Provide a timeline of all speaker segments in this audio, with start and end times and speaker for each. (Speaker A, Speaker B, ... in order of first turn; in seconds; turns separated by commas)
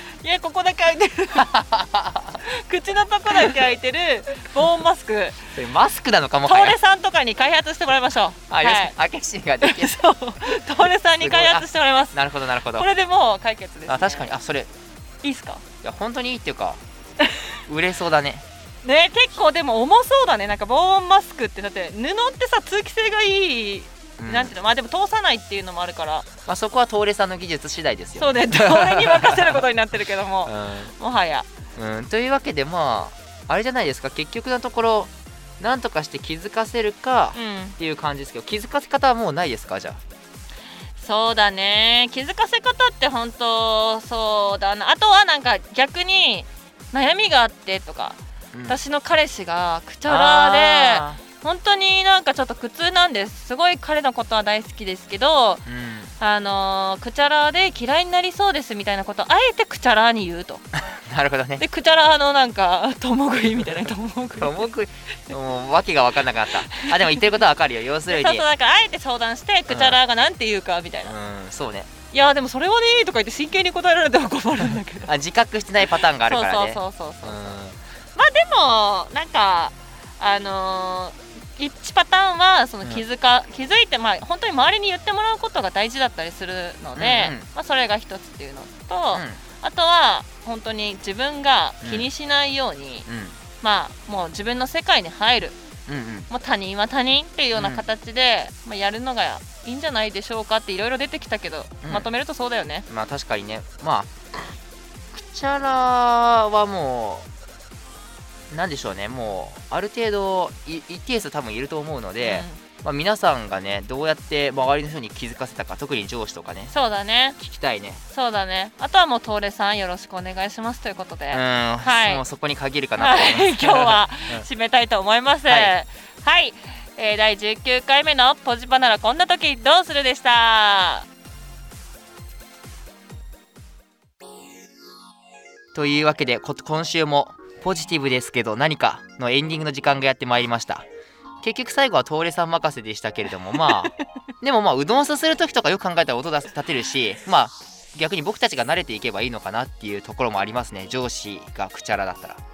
Speaker A: 0.2-1.5, Speaker B: 1.4-2.4, Speaker A: 2.4-5.4, Speaker B: 5.5-6.8, Speaker A: 6.4-8.9, Speaker B: 8.5-10.0, Speaker A: 9.6-12.2, Speaker B: 11.2-12.9, Speaker A: 12.7-14.3, Speaker B: 13.9-14.7, Speaker A: 15.2-15.6, Speaker B: 15.8-16.8, Speaker B: 17.7-18.4, Speaker A: 18.8-26.3, Speaker B: 24.2-24.5, Speaker B: 26.4-29.6, Speaker A: 28.1-31.5, Speaker B: 30.4-30.9, Speaker B: 31.8-40.0, Speaker A: 37.3-37.7, Speaker A: 41.0-48.2, Speaker B: 48.5-48.8, Speaker A: 48.7-55.6, Speaker B: 50.0-51.2, Speaker B: 55.6-56.1, Speaker A: 56.2-60.6, Speaker B: 60.9-61.6, Speaker A: 61.6-64.7, Speaker B: 64.4-68.4, Speaker A: 66.7-67.1, Speaker A: 68.1-71.1, Speaker B: 69.7-70.0, Speaker B: 71.0-71.9, Speaker A: 72.1-75.1, Speaker B: 75.0-77.8, Speaker A: 76.2-77.5, Speaker A: 78.1-93.0, Speaker B: 87.0-87.5, Speaker B: 89.1-89.4, Speaker B: 91.8-92.1, Speaker B: 93.1-93.4, Speaker A: 93.6-95.5, Speaker B: 95.9-96.3, Speaker A: 96.3-102.8, Speaker B: 97.5-97.8, Speaker B: 102.9-104.5, Speaker B: 105.1-107.2, Speaker B: 108.5-116.7, Speaker A: 112.2-112.6, Speaker A: 116.7-117.4, Speaker B: 117.4-118.0, Speaker A: 118.1-122.2, Speaker B: 121.3-124.4, Speaker A: 123.0-131.1, Speaker B: 125.5-125.7, Speaker B: 135.7-140.8, Speaker B: 141.4-152.4